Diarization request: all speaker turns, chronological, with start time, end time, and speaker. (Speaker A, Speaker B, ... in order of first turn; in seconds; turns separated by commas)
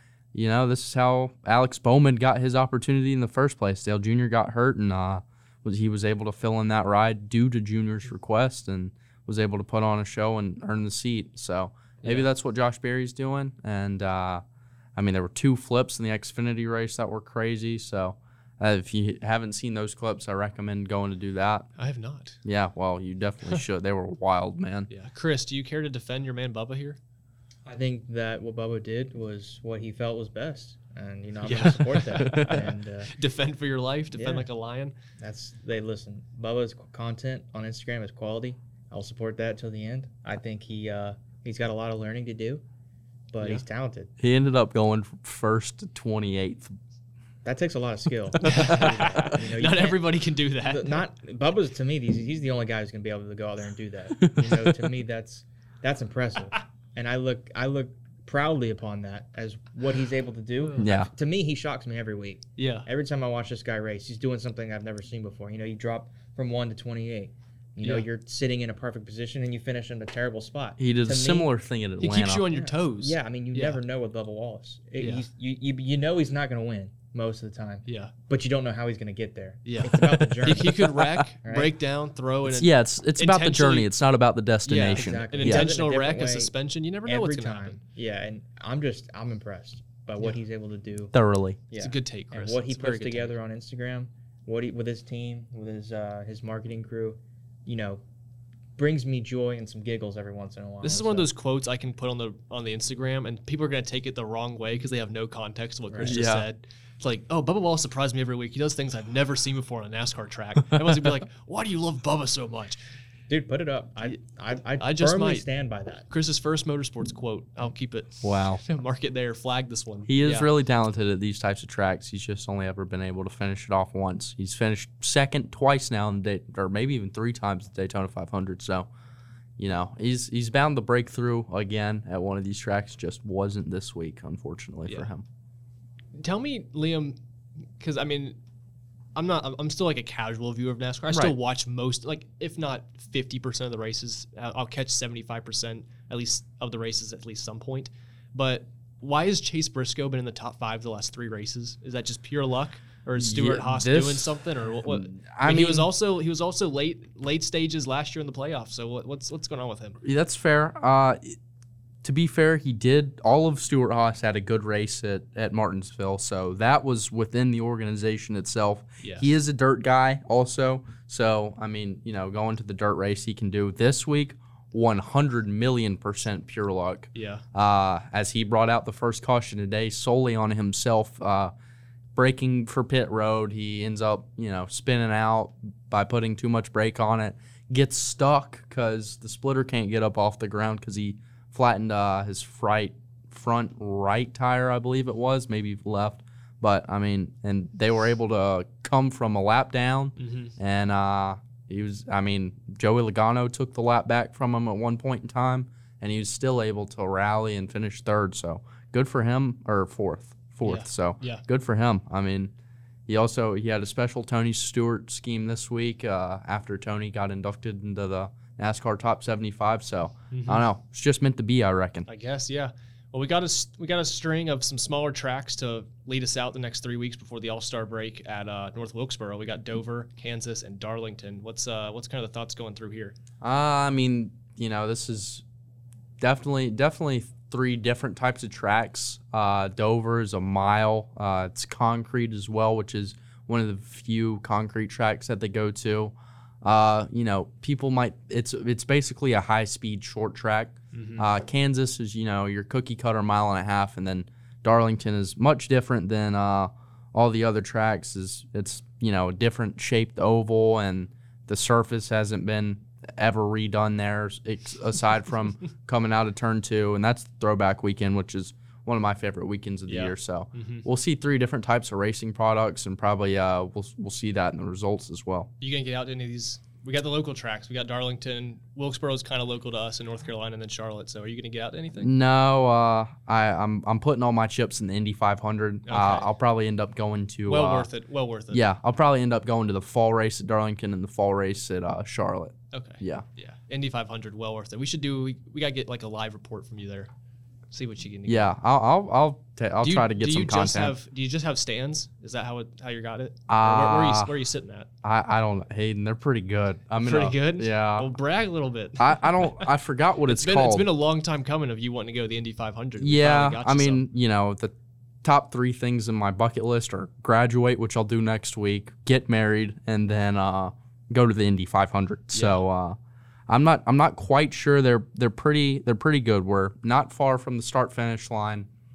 Speaker A: 0.3-14.4, Speaker A: 14.9-21.7, Speaker B: 21.8-22.4, Speaker A: 22.4-24.9, Speaker B: 24.9-27.0, Speaker C: 27.6-33.1, Speaker B: 31.4-34.9, Speaker A: 32.2-32.5, Speaker C: 34.1-34.5, Speaker C: 35.2-42.6, Speaker C: 43.3-44.1, Speaker A: 44.2-46.7, Speaker C: 47.4-50.1, Speaker B: 48.4-51.0, Speaker C: 50.6-71.5, Speaker A: 54.2-54.7, Speaker A: 60.8-61.1, Speaker B: 62.6-62.9, Speaker B: 67.8-68.1, Speaker A: 70.8-72.5, Speaker B: 72.0-73.8, Speaker C: 72.5-81.7, Speaker B: 75.0-75.2, Speaker B: 77.9-78.1, Speaker B: 79.7-83.9, Speaker A: 82.5-85.7, Speaker B: 84.7-87.8, Speaker C: 84.9-86.5, Speaker C: 87.1-91.2, Speaker A: 91.1-91.6, Speaker C: 91.7-98.0, Speaker B: 91.8-93.3, Speaker C: 98.8-101.3, Speaker B: 100.8-112.8, Speaker C: 105.9-106.2, Speaker A: 106.0-106.4, Speaker C: 113.3-116.1, Speaker B: 114.8-115.5, Speaker B: 116.1-120.5, Speaker A: 118.2-118.6, Speaker A: 120.1-128.9, Speaker A: 129.6-135.2, Speaker B: 136.1-137.2, Speaker B: 137.8-138.4, Speaker B: 139.2-160.0, Speaker A: 153.2-155.9, Speaker A: 160.0-161.4, Speaker A: 162.0-181.5, Speaker B: 169.0-169.3, Speaker B: 177.2-177.4, Speaker A: 182.2-212.5, Speaker B: 200.2-200.5, Speaker B: 210.6-211.4, Speaker A: 213.1-222.1, Speaker B: 220.3-220.7, Speaker B: 222.1-233.2, Speaker A: 233.4-235.4, Speaker A: 236.2-275.5, Speaker B: 250.9-251.3, Speaker B: 269.9-270.9, Speaker B: 275.6-282.1, Speaker A: 282.0-287.9, Speaker B: 285.9-286.3, Speaker B: 287.4-288.6, Speaker A: 288.5-293.3, Speaker B: 292.7-297.1, Speaker B: 297.7-298.5, Speaker A: 298.3-300.9, Speaker B: 299.8-304.9, Speaker A: 303.5-304.3, Speaker A: 305.0-308.1, Speaker B: 307.0-309.7, Speaker A: 309.0-310.9, Speaker B: 310.3-314.0, Speaker A: 313.0-328.7, Speaker B: 322.3-322.6